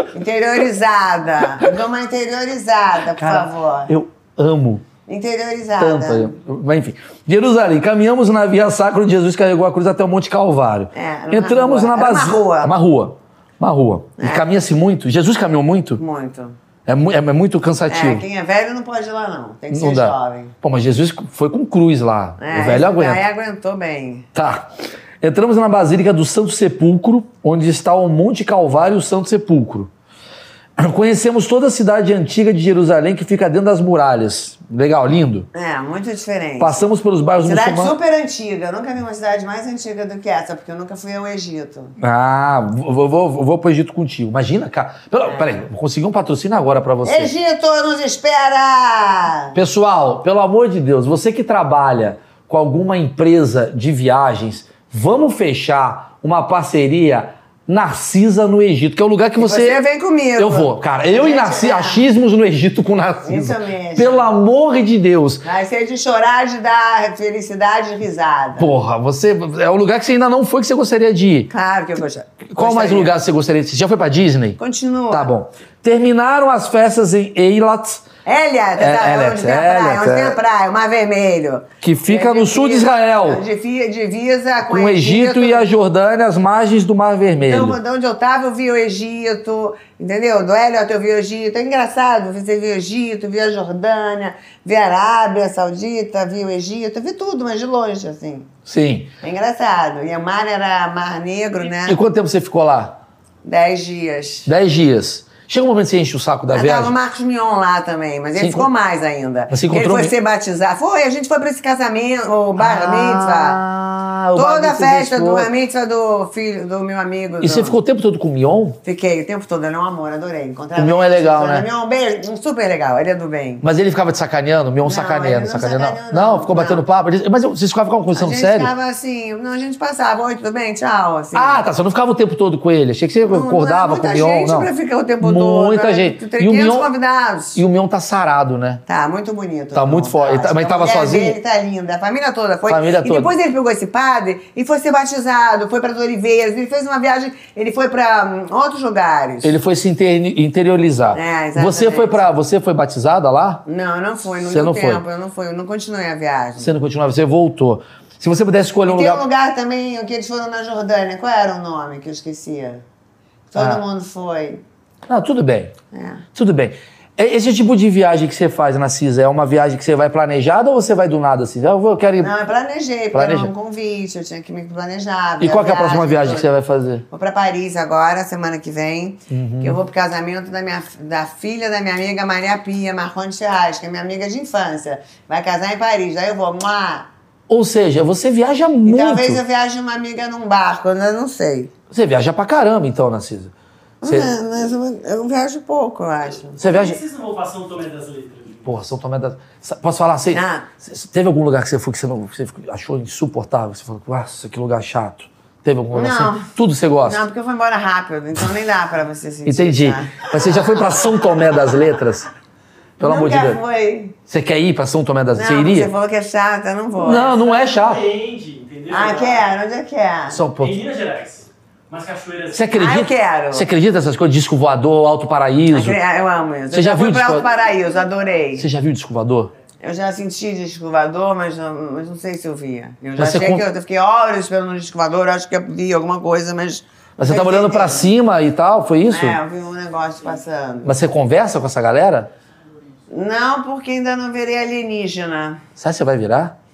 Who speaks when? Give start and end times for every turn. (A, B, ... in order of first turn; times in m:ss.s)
0:00.1-0:03.9 A
0:03.2-0:04.8 B
0:05.1-0:06.3 A
0:05.8-0:16.0 B
0:10.9-0:12.7 A
0:14.2-0:14.4 A
0:16.0-0:16.6 A
0:16.9-0:18.2 B
0:17.9-0:20.5 A
0:19.7-0:23.2 B
0:22.4-0:24.3 A
0:24.3-0:24.7 B
0:25.2-0:29.9 B
0:30.8-0:35.5 B
0:35.5-0:36.8 A
0:36.6-0:38.0 B
0:37.4-0:42.0 A
0:42.0-0:47.3 B
0:45.2-0:45.6 A
0:47.0-0:49.6 A
0:49.5-0:59.8 B
0:59.4-1:02.0 A
1:00.4-1:05.4 B
1:03.2-1:04.3 A
1:05.4-1:08.7 A
1:08.6-1:11.5 B
1:11.5-1:13.2 A
1:12.5-1:14.6 B
1:14.6-1:15.3 A
1:15.1-1:18.1 B
1:18.2-1:25.7 A
1:18.8-1:20.4 B
1:21.8-1:23.4 B
1:24.6-1:27.8 B
1:27.4-1:38.5 A
1:38.6-1:39.1 B
1:39.2-1:42.0 A
1:41.8-1:43.0 B
1:43.4-1:44.5 A
1:44.4-1:46.9 B
1:46.5-1:53.6 A
1:48.4-1:48.7 B
1:49.5-1:50.1 B
1:52.6-1:55.5 B
1:54.3-1:57.8 A
1:57.4-1:58.8 B
1:58.8-2:03.6 A
2:00.8-2:01.6 B
2:03.6-2:08.7 B
2:04.8-2:06.8 A
2:08.1-2:11.6 A
2:11.3-2:14.7 B
2:13.2-2:17.6 A
2:15.2-2:16.9 B
2:17.5-2:18.8 B
2:18.9-2:29.5 A
2:19.7-2:21.4 B
2:22.7-2:23.3 B
2:29.4-2:33.6 B
2:31.1-2:32.3 A
2:33.6-2:36.7 A
2:34.4-2:35.0 B
2:36.6-2:39.2 B
2:38.8-2:42.8 A
2:43.5-2:44.6 A
2:43.6-2:43.8 B
2:45.1-2:45.7 B
2:45.9-2:46.2 A
2:46.3-2:52.3 B
2:52.2-2:56.5 A
2:53.1-2:53.5 B
2:55.4-2:57.0 B
2:57.1-3:07.1 A
2:59.3-2:59.8 B
3:07.5-3:09.4 B
3:08.8-3:11.7 A
3:11.9-3:13.5 B
3:14.0-3:16.6 A
3:14.0-3:14.3 B
3:16.6-3:17.0 B
3:16.6-3:18.7 C
3:18.6-3:27.2 B
3:20.3-3:20.7 A
3:25.9-3:26.5 A
3:27.0-3:31.0 A
3:29.4-3:32.3 B
3:33.0-3:33.6 B
3:33.0-3:34.1 A
3:34.3-3:35.9 B
3:35.3-3:37.4 A
3:37.0-3:38.0 B
3:37.3-3:39.4 C
3:38.9-3:40.4 A
3:40.3-3:40.8 B
3:40.6-3:42.7 C
3:42.5-3:46.0 B
3:42.7-3:43.7 A
3:45.7-3:48.7 A
3:46.7-3:47.5 B
3:48.6-3:49.5 B
3:49.8-3:58.1 A
3:53.2-3:53.6 B
3:57.2-3:59.4 B
3:59.1-4:00.9 A
4:00.8-4:02.3 B
4:03.1-4:05.6 A
4:05.8-4:06.5 B